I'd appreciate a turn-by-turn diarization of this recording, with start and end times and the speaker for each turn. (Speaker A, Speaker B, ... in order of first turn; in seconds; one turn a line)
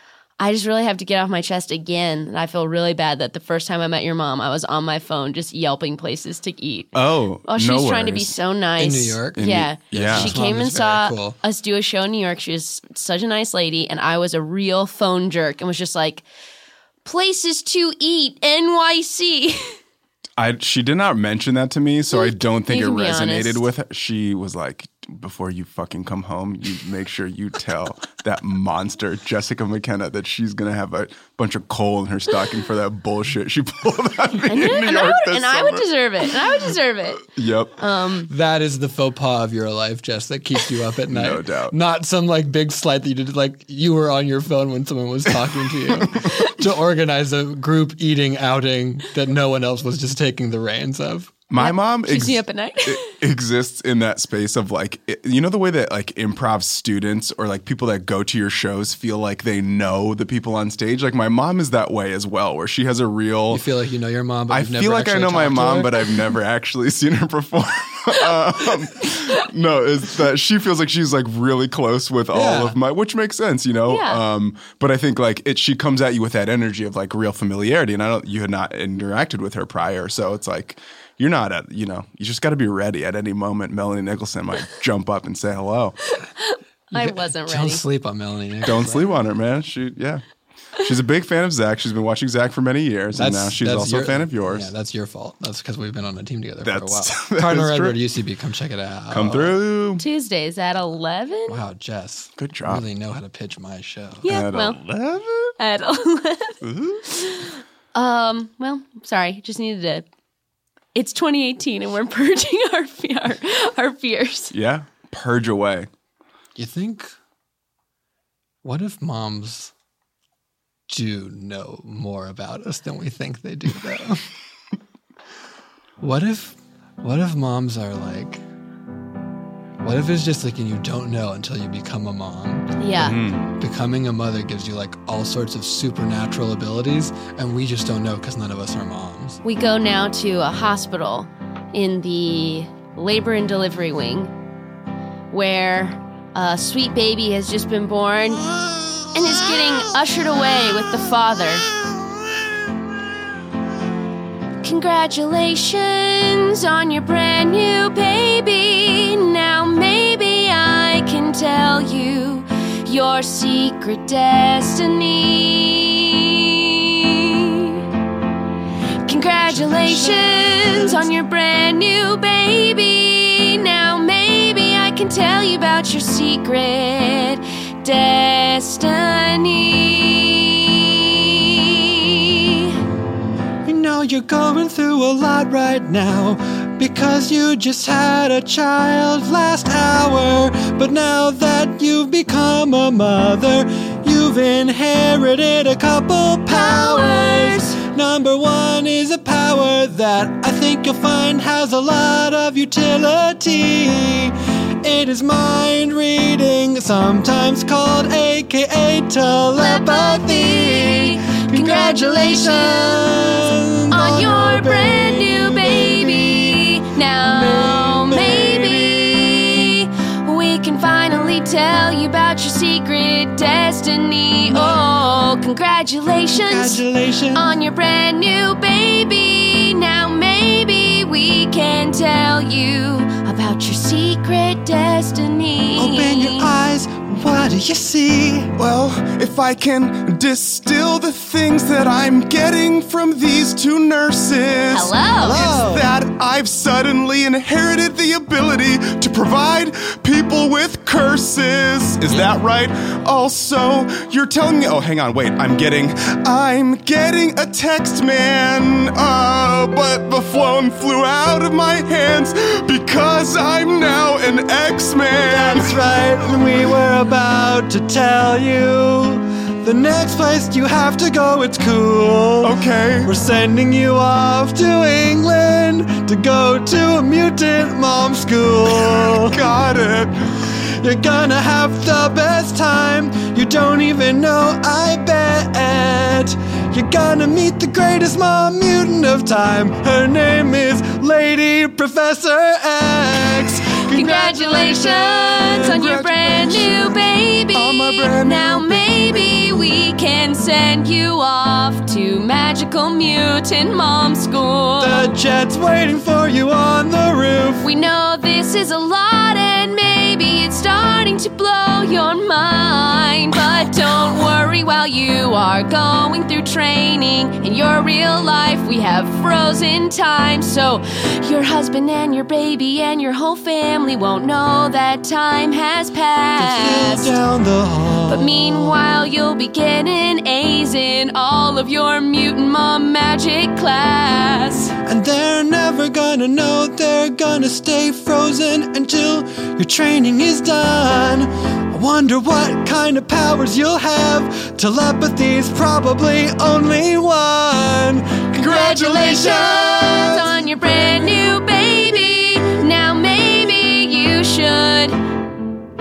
Speaker A: 0.4-6.9
Speaker B: 6.9-8.3
Speaker A: 7.5-16.2
Speaker C: 8.8-11.3
Speaker B: 9.4-10.3
Speaker A: 17.0-19.7
Speaker B: 20.4-36.3
Speaker A: 22.1-23.6
Speaker A: 34.5-38.3
Speaker B: 37.2-37.8
Speaker C: 38.3-51.3
Speaker B: 41.1-41.8
Speaker B: 45.9-46.2
Speaker B: 51.5-63.6
Speaker A: 51.5-53.1
Speaker C: 63.5-66.0
Speaker B: 64.5-86.0
Speaker C: 72.3-72.8
Speaker A: 73.8-74.2
Speaker A: 86.4-87.8
Speaker C: 86.9-89.1
Speaker B: 88.6-90.2
Speaker B: 90.8-94.7
Speaker C: 93.2-99.6
Speaker B: 96.6-98.0
Speaker B: 99.1-100.0
Speaker A: 100.0-101.6
Speaker C: 101.5-104.3
Speaker B: 102.4-102.8
Speaker A: 104.2-104.8
Speaker B: 104.2-105.5
Speaker A: 105.6-110.0
Speaker B: 106.6-107.0
Speaker A: 110.9-114.5
Speaker B: 114.5-115.9
Speaker C: 116.5-117.1
Speaker C: 118.6-119.7
Speaker C: 120.9-124.2
Speaker C: 126.0-128.4
Speaker C: 129.8-132.8
Speaker A: 132.8-133.2
Speaker B: 133.0-133.5
Speaker C: 133.6-139.4
Speaker A: 139.4-144.3
Speaker A: 145.3-148.4
Speaker C: 148.6-149.5
Speaker A: 149.1-151.7
Speaker C: 150.4-150.7
Speaker A: 154.6-167.8
Speaker A: 169.1-182.8
Speaker C: 169.5-171.0
Speaker C: 183.6-216.6
Speaker A: 196.5-197.8
Speaker A: 209.5-236.5
Speaker C: 217.2-219.7
Speaker C: 224.5-224.8
Speaker C: 226.3-227.5
Speaker C: 235.8-238.5
Speaker B: 238.6-265.9
Speaker A: 244.7-245.4
Speaker C: 245.2-245.9
Speaker C: 265.2-279.4
Speaker B: 272.4-273.1
Speaker B: 278.7-280.1
Speaker C: 280.8-295.8
Speaker A: 293.9-305.1
Speaker B: 295.5-299.7
Speaker C: 304.8-307.6
Speaker A: 307.6-327.1
Speaker C: 326.4-328.8
Speaker A: 328.1-334.7
Speaker C: 334.8-348.4
Speaker B: 348.4-350.0
Speaker A: 348.4-355.0
Speaker C: 348.9-349.9